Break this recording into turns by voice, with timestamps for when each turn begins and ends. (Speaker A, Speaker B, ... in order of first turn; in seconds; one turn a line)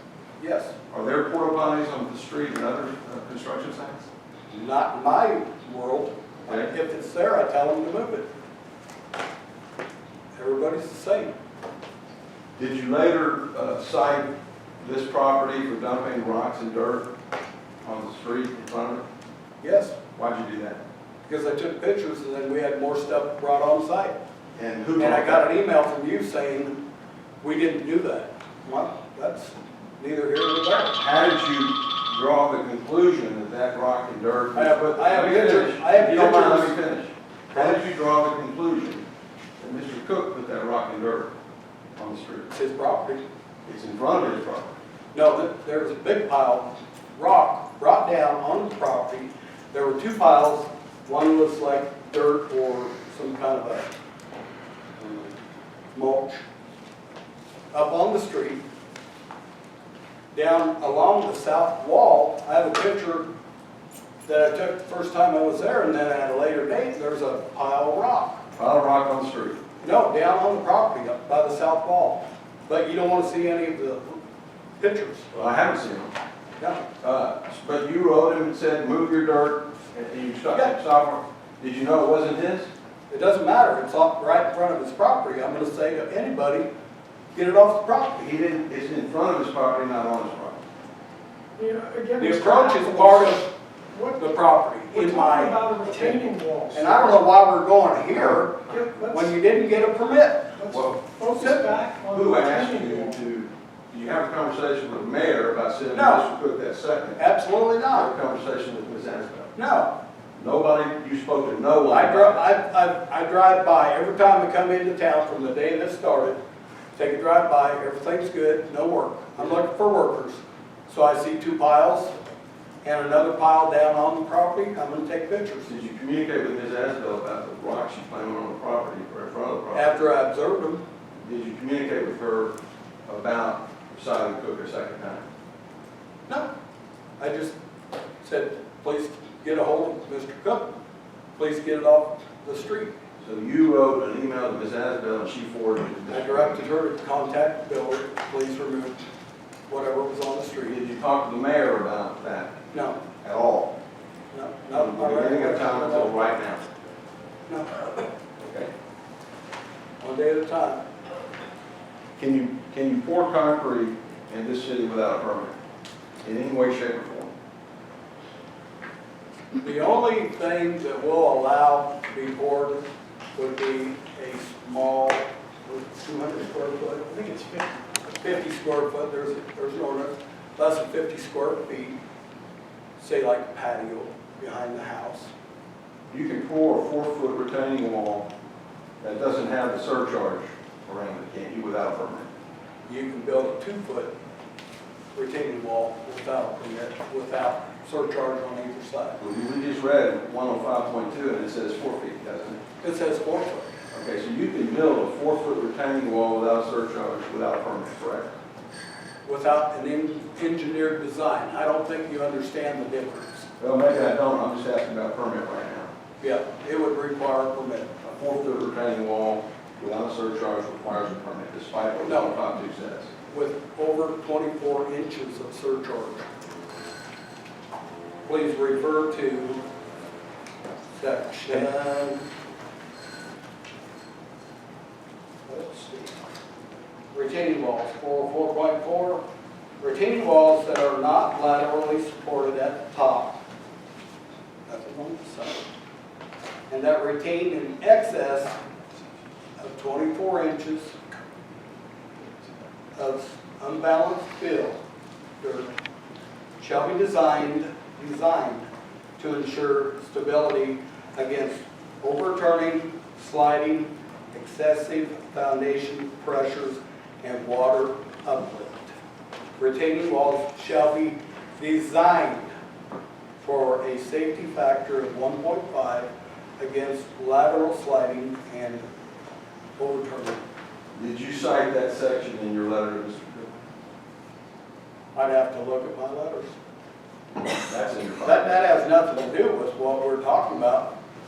Speaker A: 0.4-0.7
Speaker B: 0.9-4.1
Speaker A: 4.5-8.2
Speaker A: 10.3-11.3
Speaker B: 12.6-17.1
Speaker B: 17.8-19.0
Speaker A: 19.6-20.0
Speaker B: 20.1-20.8
Speaker A: 21.2-24.1
Speaker B: 24.6-25.5
Speaker A: 25.0-26.8
Speaker A: 27.4-31.0
Speaker B: 30.9-39.0
Speaker A: 34.5-36.8
Speaker B: 39.6-41.3
Speaker B: 42.0-42.5
Speaker A: 42.5-43.2
Speaker B: 43.6-44.7
Speaker A: 45.1-53.9
Speaker A: 55.0-55.4
Speaker A: 55.9-56.4
Speaker A: 57.7-58.6
Speaker A: 60.3-63.2
Speaker A: 64.2-68.4
Speaker B: 68.5-69.6
Speaker A: 69.8-74.2
Speaker A: 74.8-75.3
Speaker B: 75.3-76.1
Speaker A: 76.6-76.8
Speaker B: 77.0-82.7
Speaker A: 83.1-86.7
Speaker A: 87.3-88.3
Speaker B: 88.2-90.6
Speaker C: 91.5-94.3
Speaker A: 92.2-93.5
Speaker A: 94.2-100.6
Speaker C: 94.9-97.3
Speaker C: 98.7-99.3
Speaker C: 100.6-103.2
Speaker B: 100.7-101.0
Speaker A: 101.3-101.8
Speaker B: 102.1-107.2
Speaker A: 105.9-106.3
Speaker A: 107.2-108.1
Speaker B: 107.9-109.5
Speaker A: 109.5-109.9
Speaker B: 110.3-112.4
Speaker A: 111.9-116.4
Speaker A: 117.0-122.1
Speaker A: 122.8-125.7
Speaker B: 125.7-130.0
Speaker A: 129.7-130.8
Speaker B: 131.1-132.5
Speaker B: 133.1-135.2
Speaker A: 137.2-137.5
Speaker A: 138.2-140.7
Speaker A: 141.3-142.9
Speaker B: 143.2-146.6
Speaker A: 146.1-149.0
Speaker A: 149.7-150.8
Speaker B: 150.6-152.5
Speaker A: 152.7-153.0
Speaker B: 153.2-153.7
Speaker A: 154.3-156.3
Speaker B: 154.7-156.6
Speaker A: 157.5-158.1
Speaker B: 158.4-158.7
Speaker A: 160.0-160.8
Speaker B: 162.2-165.6
Speaker B: 166.2-167.3
Speaker A: 169.6-177.3
Speaker C: 177.3-177.7
Speaker A: 178.2-181.9
Speaker A: 183.0-185.3
Speaker B: 186.1-188.3
Speaker B: 189.0-192.3
Speaker A: 192.8-194.1
Speaker A: 195.1-199.2
Speaker B: 199.2-202.6
Speaker A: 202.8-203.7
Speaker B: 203.9-208.3
Speaker A: 209.2-213.5
Speaker B: 213.6-215.9
Speaker A: 216.2-217.9
Speaker B: 218.0-223.1
Speaker A: 222.0-222.3
Speaker A: 223.3-226.2
Speaker A: 228.2-229.6
Speaker A: 231.0-232.2
Speaker A: 235.4-236.2
Speaker A: 237.1-239.2
Speaker A: 239.8-243.4
Speaker A: 244.7-245.7
Speaker A: 246.7-248.6
Speaker A: 249.6-251.0
Speaker A: 252.9-254.8
Speaker A: 255.4-255.7
Speaker A: 256.6-258.7
Speaker A: 259.2-268.9
Speaker A: 269.6-272.5
Speaker A: 273.4-278.9
Speaker A: 279.8-280.4
Speaker B: 280.9-283.5
Speaker A: 285.1-286.5
Speaker B: 287.5-288.5
Speaker A: 288.2-290.9